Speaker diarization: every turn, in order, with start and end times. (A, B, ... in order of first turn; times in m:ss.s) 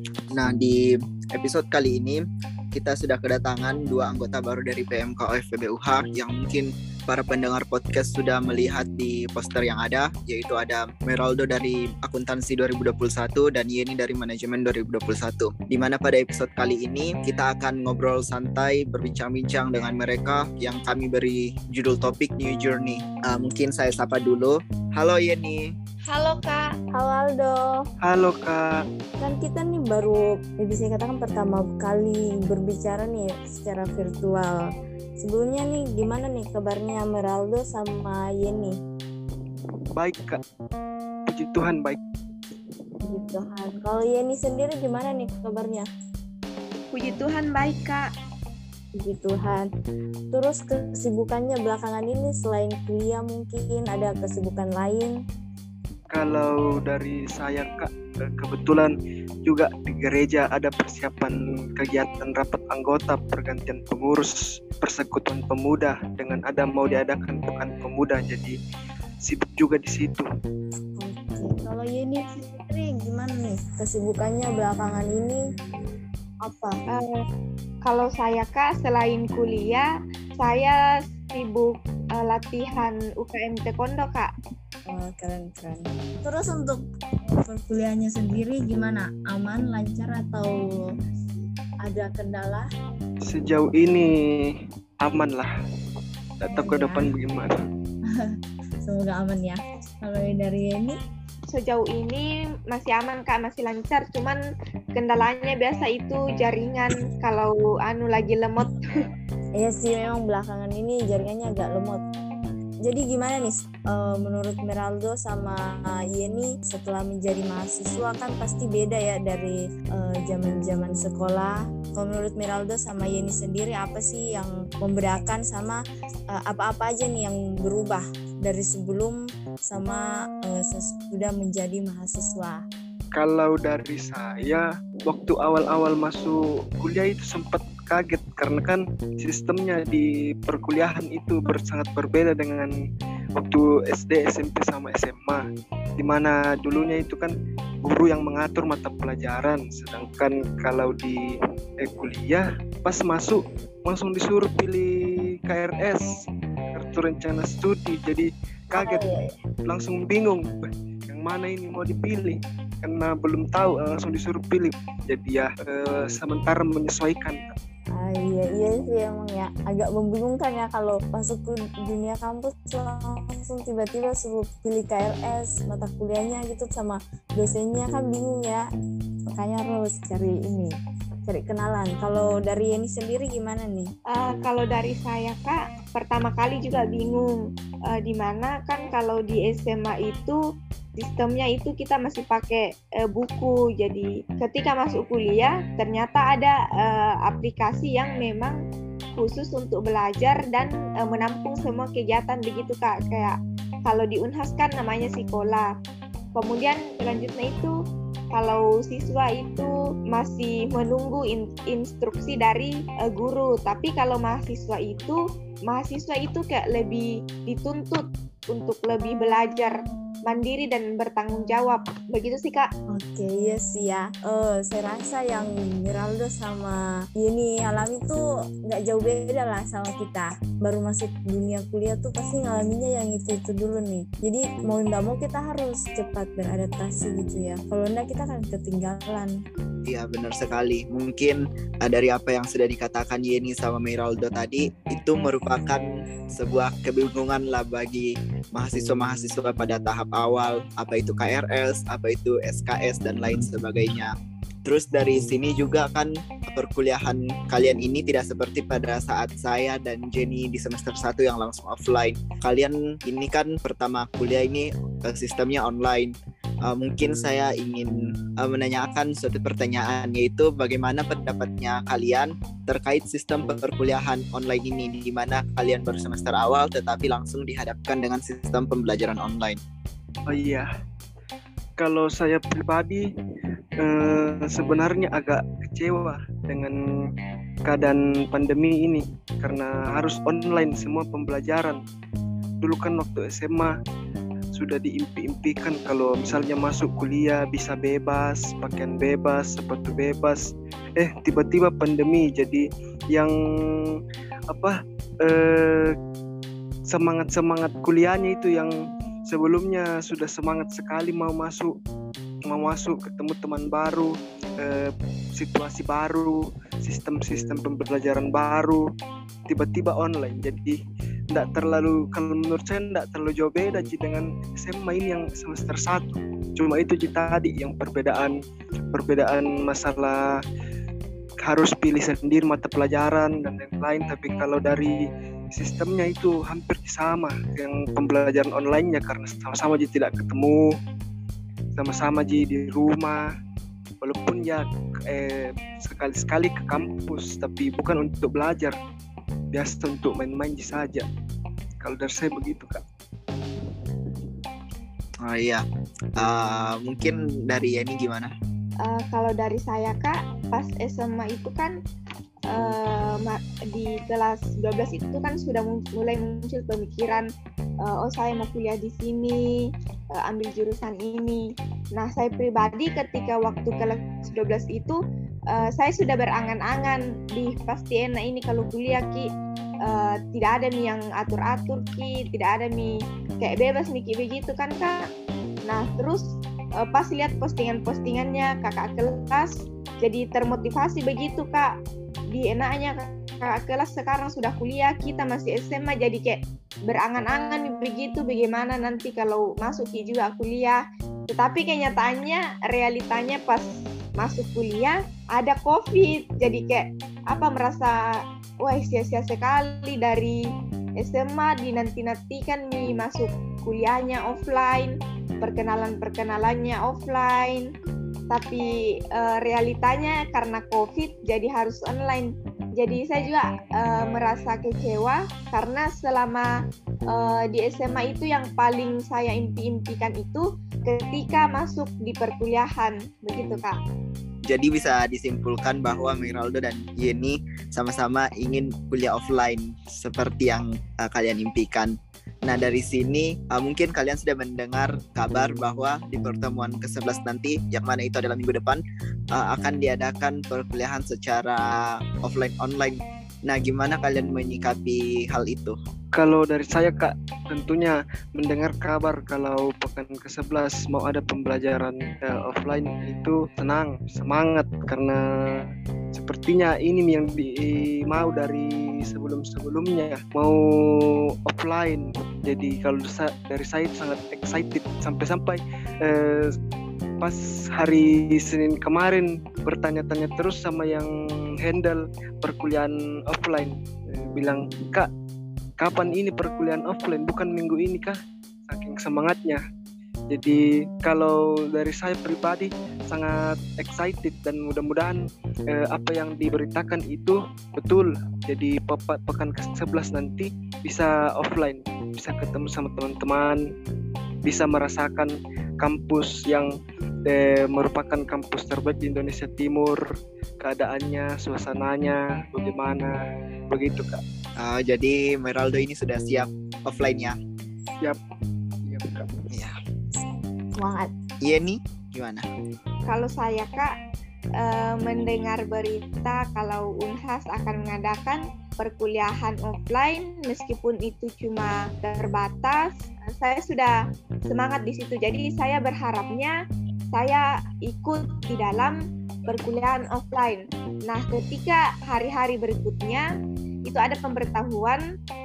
0:00.3-0:00.8 A
0:01.3-0:02.2 A
0:02.7-0:25.6 A
0:26.1-0:26.7 B
0:26.9-0:27.6 C
0:28.0-0:28.8 D
0:29.2-0:38.8 C
0:39.9-0:40.4 D
0:41.3-0:42.0 D
0:43.1-0:45.9 C
0:46.9-0:48.0 B
0:49.0-0:49.7 C
0:50.3-0:55.2 C
0:56.1-0:58.9 D
0:59.4-1:08.5 D
1:09.2-1:10.3 D
1:11.0-1:15.4 C
1:16.4-1:16.8 C
1:16.9-1:17.2 B
1:17.8-1:24.3 B
1:24.9-1:30.9 C
1:31.8-1:32.6 C
1:33.2-1:35.5 D
1:36.4-1:37.5 D
1:36.5-1:37.1 C
1:38.8-1:41.0 C
1:41.5-1:44.4 B
1:44.9-1:48.9 B
1:49.6-1:52.0 C
1:52.8-2:05.8 C
2:06.3-2:12.6 C
2:13.1-2:22.7 D
2:23.4-2:25.4 D
2:26.0-2:34.9 D
2:35.4-2:36.0 D
2:36.7-2:39.0 D
2:38.7-2:39.3 C
2:39.6-2:40.4 D
2:41.1-2:47.5 D
2:48.0-2:58.6 C
2:59.3-3:00.7 C
3:01.2-3:03.9 C
3:04.1-3:10.4 B
3:11.0-3:18.6 B
3:19.1-3:25.7 B
3:26.3-3:27.8 B
3:28.3-3:42.7 B
3:42.9-3:59.3 C
3:59.8-4:14.1 A
4:14.6-4:26.1 A
4:26.6-4:39.6 A
4:40.3-4:40.7 D
4:41.8-4:43.0 D
4:43.8-4:46.8 D
4:47.6-4:51.8 D
4:52.6-4:53.7 D
4:54.5-5:00.4 D
5:01.0-5:04.0 D
5:04.5-5:05.9 D
5:06.9-5:08.7 D
5:09.3-5:11.7 D
5:12.4-5:18.8 D
5:19.5-5:20.8 D
5:21.3-5:28.3 D
5:28.9-5:30.3 D
5:31.4-5:40.7 D
5:41.8-5:43.2 D
5:44.0-5:48.8 D
5:49.5-5:51.0 D
5:51.8-5:52.8 D
5:55.2-5:55.6 A
5:56.2-5:58.3 A
5:58.8-6:01.7 B
6:02.5-6:07.3 B
6:07.8-6:15.0 B
6:15.5-6:19.3 B
6:19.8-6:25.0 B
6:25.7-6:31.7 B
6:32.3-6:43.6 B
6:44.2-6:48.0 B
6:48.6-6:50.4 B
6:51.0-6:57.7 B
6:58.3-7:06.5 B
7:07.1-7:13.8 B
7:14.5-7:35.8 A
7:36.1-7:56.5 D
7:57.2-8:01.1 D
8:01.6-8:03.7 D
8:04.3-8:05.1 D
8:05.8-8:08.2 D
8:08.7-8:09.6 D
8:10.3-8:23.6 D
8:24.4-8:26.7 D
8:27.2-8:30.0 D
8:30.6-8:33.1 D
8:33.7-8:34.2 D
8:34.6-8:37.4 A
8:38.8-8:39.3 D
8:39.5-8:39.7 A
8:40.7-8:41.1 C
8:41.4-8:42.4 A
8:43.1-8:43.9 B
8:44.6-8:56.6 B
8:57.1-9:03.3 B
9:03.9-9:05.0 B